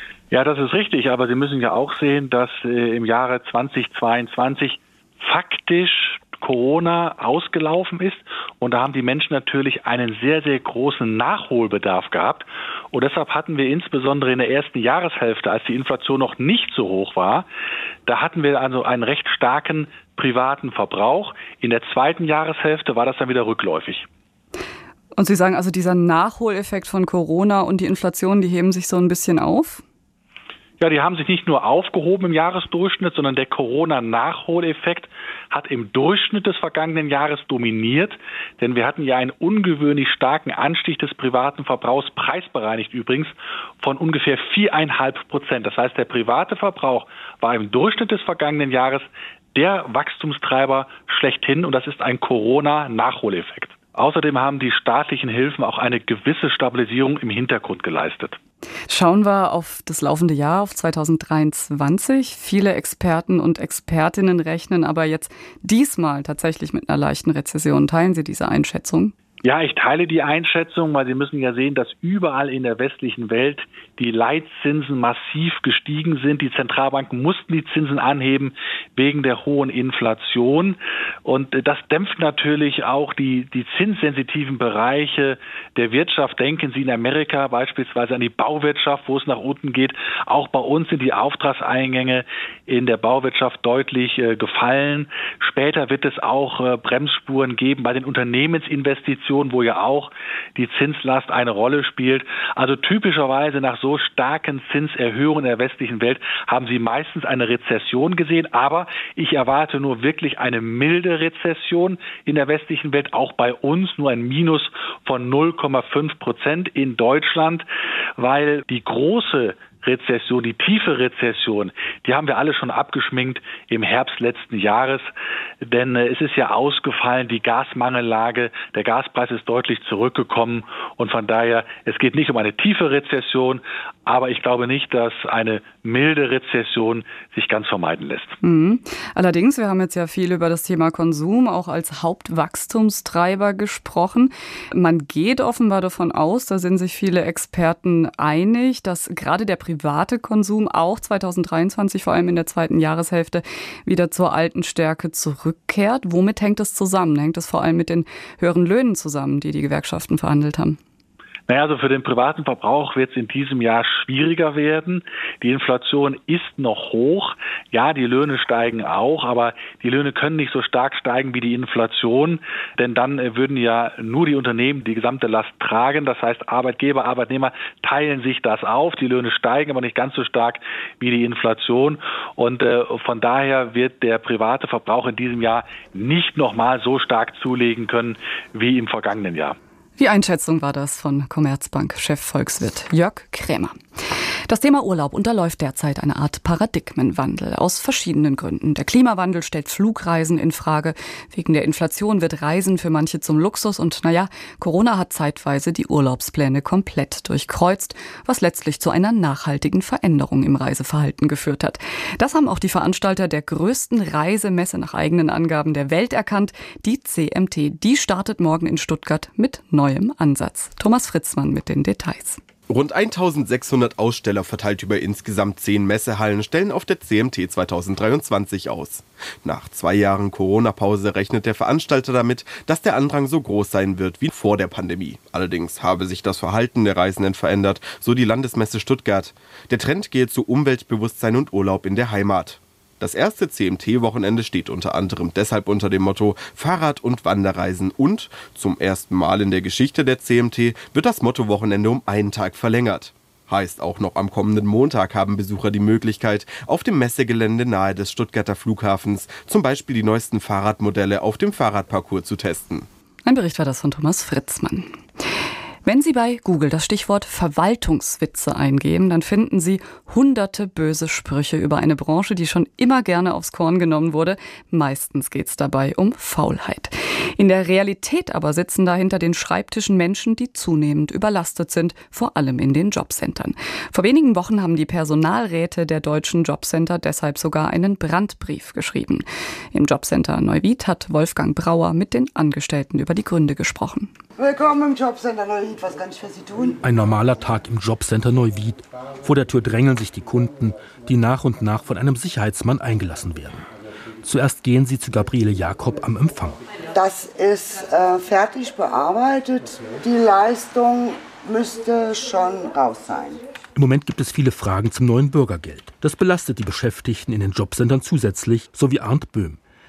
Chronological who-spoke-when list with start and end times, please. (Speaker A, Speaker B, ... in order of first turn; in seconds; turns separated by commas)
Speaker A: 0.3-17.4, Speaker A: 18.1-24.0, Speaker B: 25.1-29.8, Speaker A: 30.8-58.4, Speaker B: 58.9-69.1, Speaker A: 69.4-117.6, Speaker A: 118.2-125.1, Speaker A: 125.6-138.3, Speaker B: 138.4-160.8, Speaker A: 161.5-189.6, Speaker B: 190.0-193.7, Speaker B: 194.5-222.4, Speaker C: 222.7-262.9, Speaker B: 263.2-265.0, Speaker B: 265.8-294.1, Speaker D: 294.4-296.8, Speaker E: 296.8-303.6, Speaker E: 304.2-306.6, Speaker D: 306.9-313.4, Speaker E: 313.7-319.6